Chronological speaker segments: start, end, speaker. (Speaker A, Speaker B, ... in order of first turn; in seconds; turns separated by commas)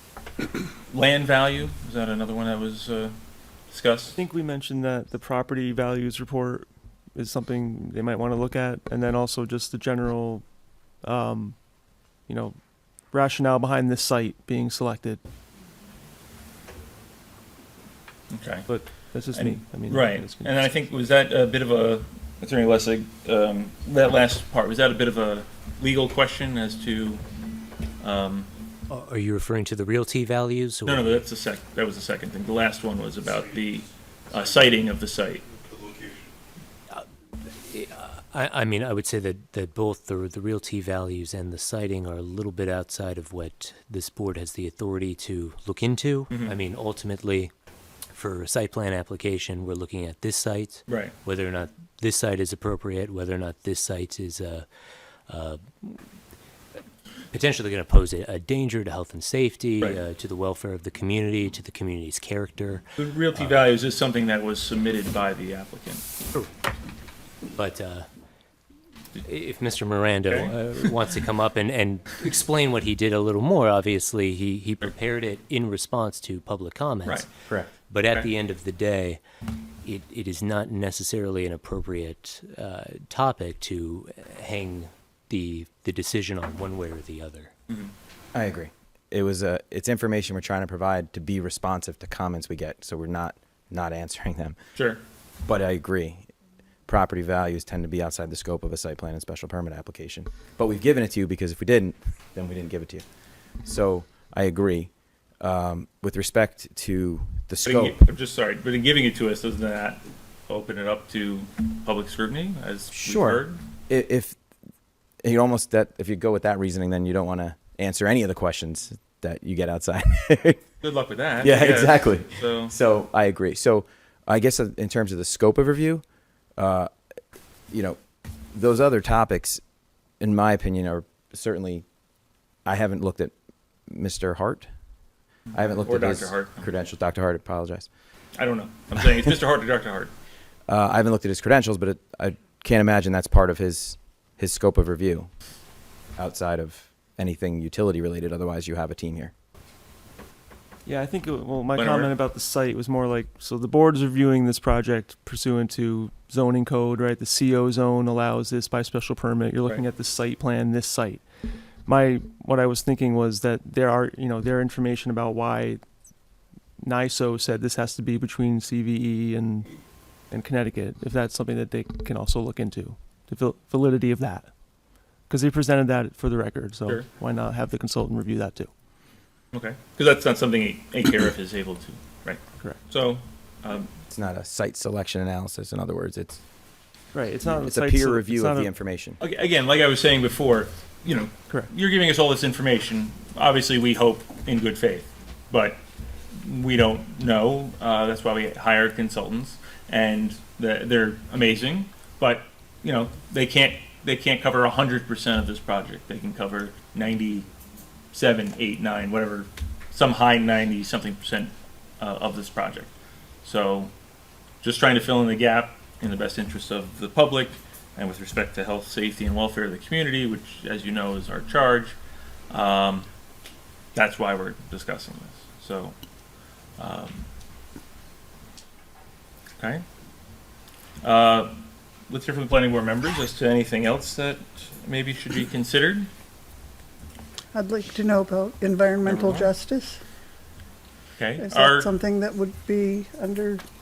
Speaker A: 0.9-3.1, Speaker A: 3.7-4.2, Speaker B: 4.2-10.4, Speaker B: 11.0-11.6, Speaker B: 12.3-12.6, Speaker B: 13.1-15.2, Speaker A: 18.3-18.7, Speaker B: 18.7-21.1, Speaker A: 19.3-27.2, Speaker A: 28.0-28.5, Speaker C: 28.9-31.2, Speaker A: 30.9-35.5, Speaker C: 36.9-47.5, Speaker A: 46.3-46.6, Speaker C: 48.1-54.7, Speaker A: 50.9-51.1, Speaker C: 55.3-56.0, Speaker C: 57.3-63.6, Speaker A: 63.0-66.0, Speaker C: 67.5-68.1, Speaker C: 69.2-77.3, Speaker A: 70.3-70.6, Speaker C: 77.9-79.2, Speaker C: 79.8-87.5, Speaker D: 88.3-94.6, Speaker A: 94.8-95.0, Speaker D: 95.5-96.3, Speaker D: 96.9-103.0, Speaker D: 103.6-108.0, Speaker A: 107.6-113.6, Speaker D: 112.9-114.4, Speaker D: 115.2-120.6, Speaker A: 120.8-122.7, Speaker D: 121.4-126.0, Speaker D: 126.6-126.9, Speaker D: 127.7-128.0, Speaker D: 128.5-129.6, Speaker D: 130.2-131.8, Speaker D: 132.7-133.3, Speaker D: 133.9-134.7, Speaker D: 135.5-137.9, Speaker A: 135.8-136.7, Speaker A: 138.4-140.1, Speaker D: 140.7-145.3, Speaker D: 146.2-149.3, Speaker B: 150.8-161.2, Speaker A: 151.8-152.1, Speaker B: 161.9-165.8, Speaker B: 166.8-169.7, Speaker B: 170.3-174.5, Speaker B: 175.3-178.7, Speaker A: 179.5-183.9, Speaker D: 184.1-186.4, Speaker B: 187.1-188.7, Speaker D: 187.5-189.2, Speaker A: 189.2-195.8, Speaker A: 196.4-207.5, Speaker A: 208.1-212.9, Speaker A: 213.4-213.9, Speaker A: 214.6-222.0, Speaker A: 222.5-223.1, Speaker A: 223.9-226.0, Speaker A: 226.8-227.3, Speaker A: 229.6-229.8, Speaker A: 231.0-236.1, Speaker E: 237.5-240.0, Speaker A: 239.1-239.5, Speaker A: 241.2-241.9, Speaker E: 241.4-243.6